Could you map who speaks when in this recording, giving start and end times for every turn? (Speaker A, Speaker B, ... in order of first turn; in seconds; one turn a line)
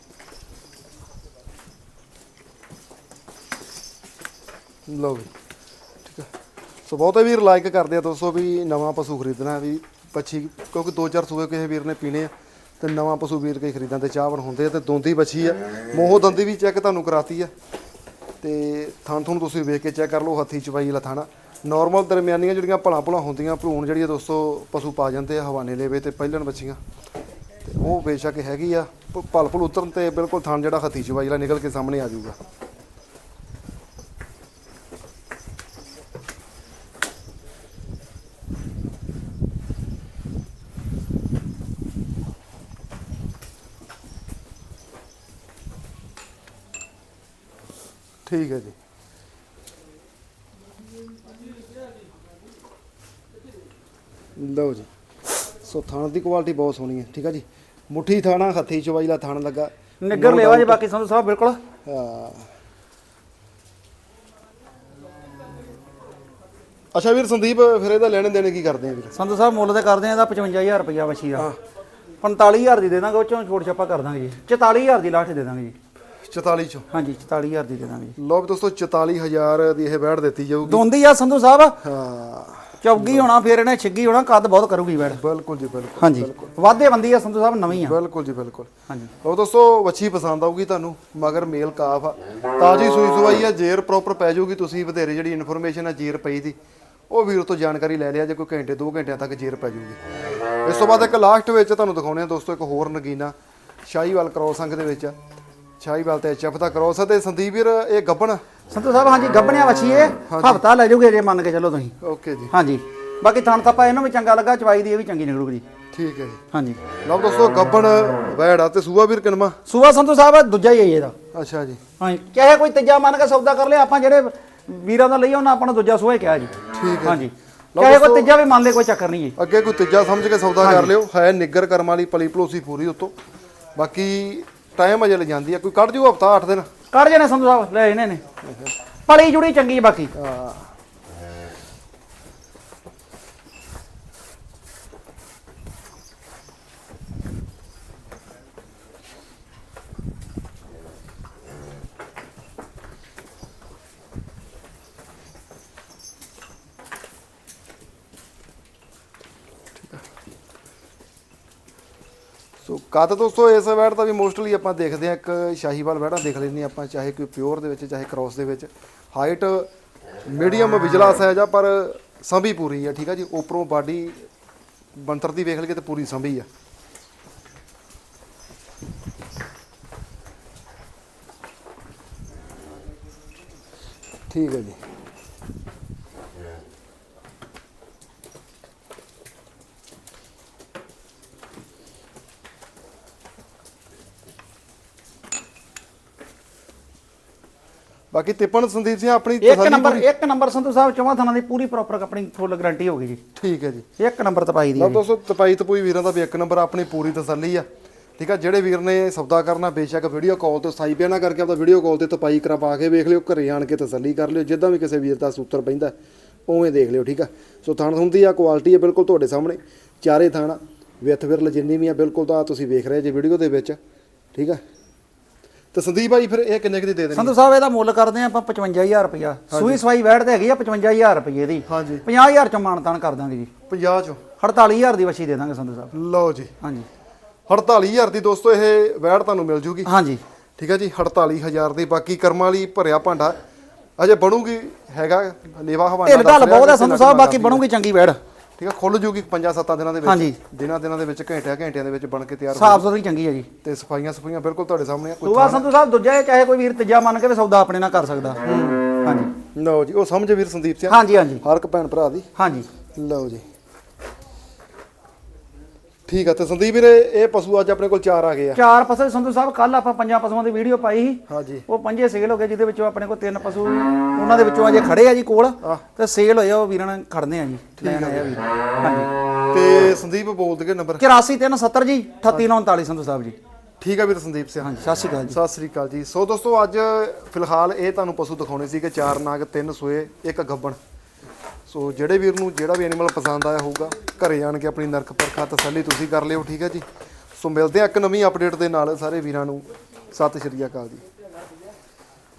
Speaker A: 4.9-5.3
Speaker A: 6.8-17.5
Speaker A: 18.4-26.8
Speaker A: 27.6-32.4
Speaker A: 48.2-48.7
Speaker A: 54.4-60.8
Speaker B: 60.0-61.6
Speaker A: 61.9-62.5
Speaker A: 66.9-69.1
Speaker B: 69.1-71.5
Speaker B: 72.2-75.7
Speaker A: 76.2-76.9
Speaker B: 76.9-78.2
Speaker A: 78.2-80.8
Speaker B: 80.6-81.8
Speaker A: 81.8-83.3
Speaker B: 82.8-85.2
Speaker A: 85.0-86.5
Speaker B: 86.0-87.9
Speaker A: 87.7-88.7
Speaker A: 89.2-96.5
Speaker A: 97.1-100.0
Speaker A: 100.6-103.3
Speaker A: 103.8-105.1
Speaker A: 105.8-108.4
Speaker B: 108.7-111.9
Speaker A: 110.3-110.6
Speaker A: 112.0-112.5
Speaker B: 112.5-115.6
Speaker A: 115.9-116.4
Speaker B: 116.5-116.8
Speaker A: 117.0-119.6
Speaker B: 119.7-121.1
Speaker A: 121.3-121.8
Speaker B: 122.0-129.3
Speaker A: 126.7-127.2
Speaker A: 127.7-128.3
Speaker A: 129.4-133.1
Speaker B: 130.6-130.9
Speaker A: 133.8-136.7
Speaker B: 136.9-138.2
Speaker A: 138.4-138.7
Speaker B: 139.1-140.1
Speaker A: 140.1-140.7
Speaker A: 159.8-160.0
Speaker A: 162.6-169.7
Speaker A: 170.3-174.2
Speaker A: 174.9-176.5
Speaker A: 184.3-184.8
Speaker A: 198.1-200.1
Speaker B: 199.4-203.2
Speaker A: 203.4-203.8
Speaker B: 204.0-205.0
Speaker A: 204.8-207.7
Speaker A: 208.2-215.9
Speaker A: 216.5-223.8
Speaker A: 224.3-224.6
Speaker A: 225.7-227.3
Speaker B: 227.1-233.5
Speaker A: 229.5-229.8
Speaker A: 231.7-232.0
Speaker A: 233.7-234.2
Speaker B: 234.4-235.9
Speaker A: 235.9-236.5
Speaker B: 236.6-236.9
Speaker A: 237.5-239.9
Speaker B: 239.8-240.2
Speaker A: 240.6-243.4
Speaker A: 244.0-247.6
Speaker B: 246.0-248.2
Speaker A: 248.6-252.8
Speaker B: 250.0-250.4
Speaker B: 252.5-253.5
Speaker A: 253.6-255.7
Speaker B: 255.2-258.4
Speaker A: 258.4-258.8
Speaker B: 259.0-259.3
Speaker A: 259.5-262.2
Speaker B: 260.9-261.4
Speaker B: 262.4-262.7
Speaker A: 262.9-263.4
Speaker A: 266.1-268.6
Speaker B: 268.5-279.1
Speaker A: 271.3-271.6
Speaker A: 277.8-278.4
Speaker A: 279.5-281.0
Speaker B: 281.0-283.4
Speaker A: 283.8-284.7
Speaker B: 284.6-285.4
Speaker A: 285.3-290.8
Speaker A: 291.7-296.8
Speaker A: 297.4-301.0